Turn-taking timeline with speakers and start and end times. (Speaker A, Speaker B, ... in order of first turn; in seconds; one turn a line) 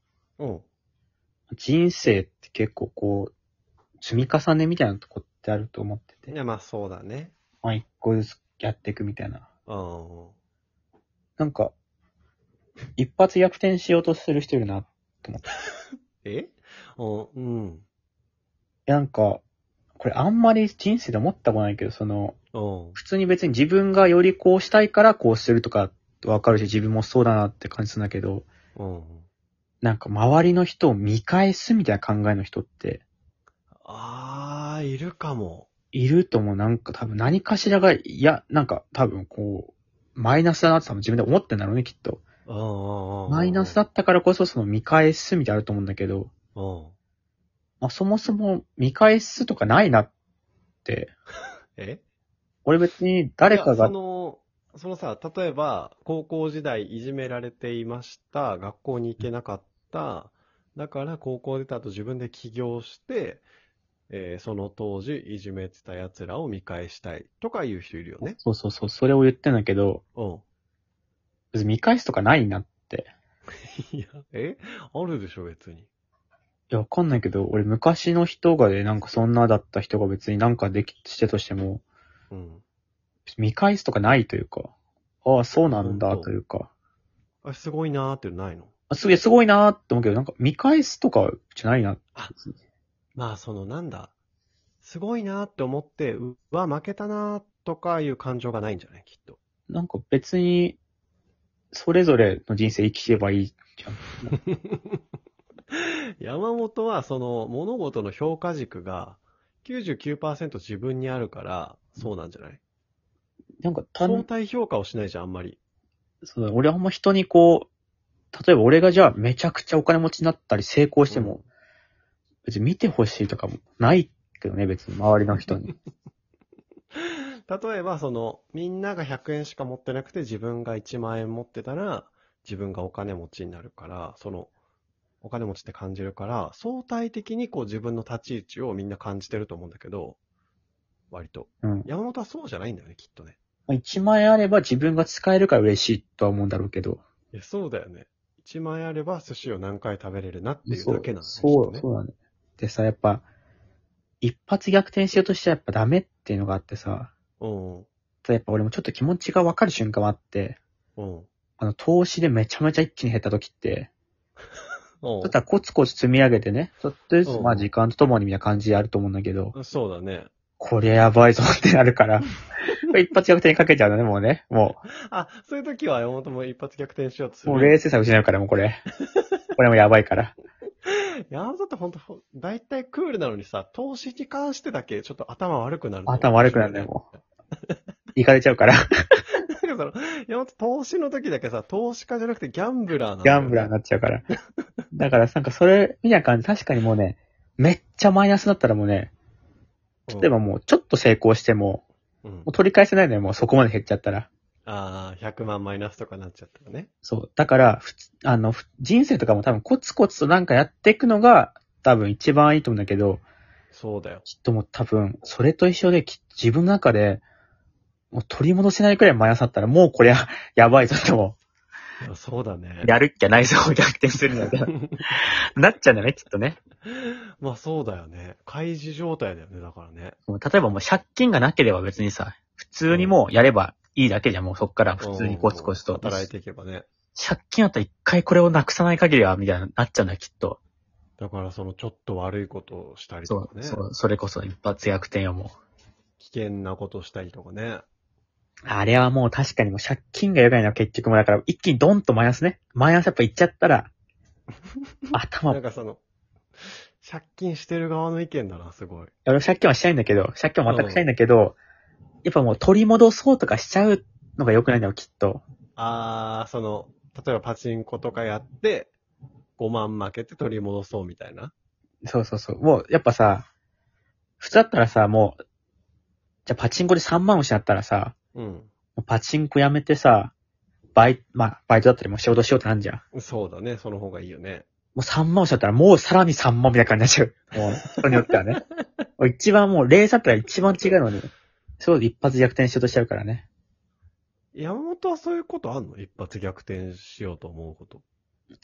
Speaker A: 0.4-0.7
Speaker B: 1.5-3.3
Speaker B: 4.0-6.3
Speaker A: 6.3-7.3
Speaker B: 7.6-9.5
Speaker A: 9.7-10.3
Speaker B: 11.4-11.7
Speaker B: 13.0-15.4
Speaker A: 16.2-17.9
Speaker B: 18.9-19.4
Speaker B: 20.0-22.4
Speaker A: 22.5-23.0
Speaker B: 22.9-28.5
Speaker A: 28.8-29.3
Speaker B: 29.8-33.0
Speaker A: 33.8-35.7
Speaker B: 35.9-42.2
Speaker A: 42.5-43.8
Speaker B: 43.3-46.3
Speaker A: 46.5-47.0
Speaker B: 47.8-50.1
Speaker B: 50.9-51.1
Speaker A: 51.8-52.0
Speaker B: 52.6-53.9
Speaker A: 53.5-63.5
Speaker A: 64.1-68.4
Speaker B: 68.2-70.0
Speaker A: 70.2-70.4
Speaker B: 71.5-73.1
Speaker A: 73.9-75.9
Speaker B: 76.7-81.8
Speaker A: 82.3-82.6
Speaker B: 83.3-84.7
Speaker B: 85.2-86.7
Speaker A: 85.8-86.3
Speaker A: 87.4-88.7
Speaker B: 88.9-92.5
Speaker A: 93.2-94.1
Speaker A: 94.8-99.4
Speaker B: 99.7-100.8
Speaker B: 101.7-104.3
Speaker A: 104.3-105.0
Speaker A: 105.7-112.6
Speaker B: 113.6-114.3
Speaker A: 114.0-115.6
Speaker B: 116.2-117.7
Speaker B: 118.3-121.4
Speaker A: 121.1-121.4
Speaker B: 122.5-125.7
Speaker A: 127.0-134.5
Speaker A: 135.2-140.2
Speaker A: 141.1-143.4
Speaker B: 141.6-141.9
Speaker B: 143.7-147.0
Speaker A: 147.3-151.8
Speaker B: 150.7-153.2
Speaker B: 154.2-157.1
Speaker A: 157.4-157.9
Speaker B: 158.2-160.6
Speaker A: 161.0-161.3
Speaker B: 161.6-163.9
Speaker A: 165.0-165.4
Speaker B: 165.2-169.6
Speaker A: 167.2-167.7
Speaker A: 169.5-170.3
Speaker B: 170.6-172.3
Speaker B: 172.9-174.8
Speaker A: 175.1-177.8
Speaker B: 177.5-178.8
Speaker A: 179.1-179.4
Speaker B: 179.6-180.3
Speaker A: 180.8-187.1
Speaker B: 186.1-187.1
Speaker B: 188.2-188.8
Speaker A: 189.6-193.7
Speaker B: 193.2-194.2
Speaker B: 194.9-199.1
Speaker A: 200.1-200.3
Speaker B: 200.2-201.8
Speaker A: 202.2-202.5
Speaker B: 202.5-204.3
Speaker A: 204.7-206.9
Speaker B: 207.1-213.2
Speaker A: 213.7-214.2
Speaker B: 214.2-217.2
Speaker B: 218.1-221.4
Speaker A: 222.0-222.9
Speaker B: 222.8-226.6
Speaker A: 224.4-225.1
Speaker A: 226.8-230.2
Speaker B: 230.3-236.3
Speaker A: 232.9-233.2
Speaker A: 235.0-236.9
Speaker B: 237.2-240.6
Speaker A: 241.2-243.8
Speaker B: 243.3-245.6
Speaker A: 246.2-247.8
Speaker B: 248.7-253.9
Speaker B: 255.1-255.6
Speaker A: 255.5-256.0
Speaker A: 256.6-259.1
Speaker B: 259.3-261.6
Speaker A: 260.7-261.1
Speaker B: 262.2-265.4
Speaker A: 265.8-268.9
Speaker A: 269.6-271.5
Speaker B: 272.0-273.4
Speaker B: 274.4-275.4
Speaker B: 276.5-278.1
Speaker A: 278.4-278.7
Speaker B: 279.0-280.3
Speaker B: 280.9-283.0
Speaker A: 283.1-284.7
Speaker B: 285.0-288.6
Speaker A: 287.6-288.6
Speaker B: 289.2-293.5
Speaker A: 290.6-290.9
Speaker A: 294.5-298.0